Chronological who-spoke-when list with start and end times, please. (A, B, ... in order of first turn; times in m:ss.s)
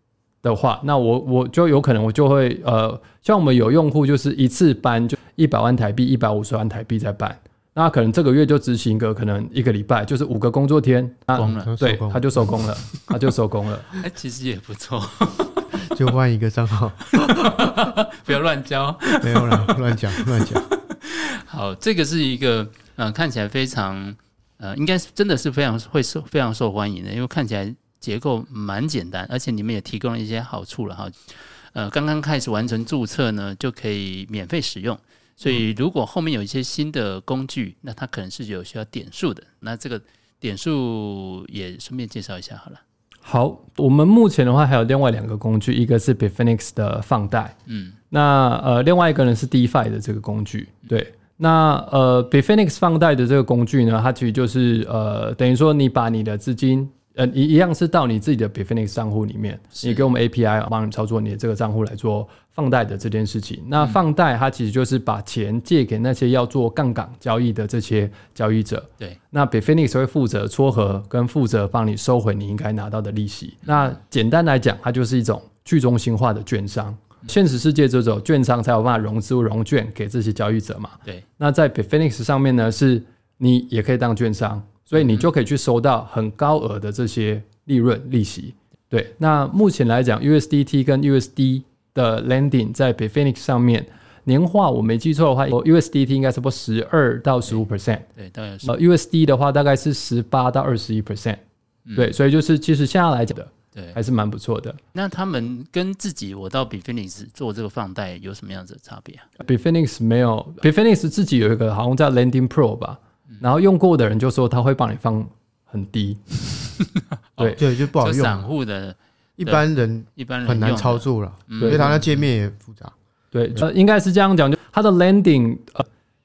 0:00.4-0:14.0 A
0:11.3-0:11.7 B
0:11.4-0:12.7 C
0:13.9-0:15.8 B
0:15.8-0:17.7 C
0:17.1-0:42.8 B
0:19.2-0:20.7 C
0:43.2-0:47.5 A
0:47.7-0:48.0 B
0:48.1-1:38.0 A
0:59.7-1:00.1 B
1:25.0-1:25.2 B
1:38.1-1:38.7 B
1:38.6-1:41.4 A
1:41.9-1:44.8 A
1:44.9-1:49.2 B
1:49.4-1:56.4 A
1:57.4-1:59.6 B
1:57.4-1:57.6 A
1:57.6-1:58.5 C
1:59.4-2:02.9 C
2:00.2-2:02.2 B
2:01.6-2:02.0 A
2:03.3-2:05.8 A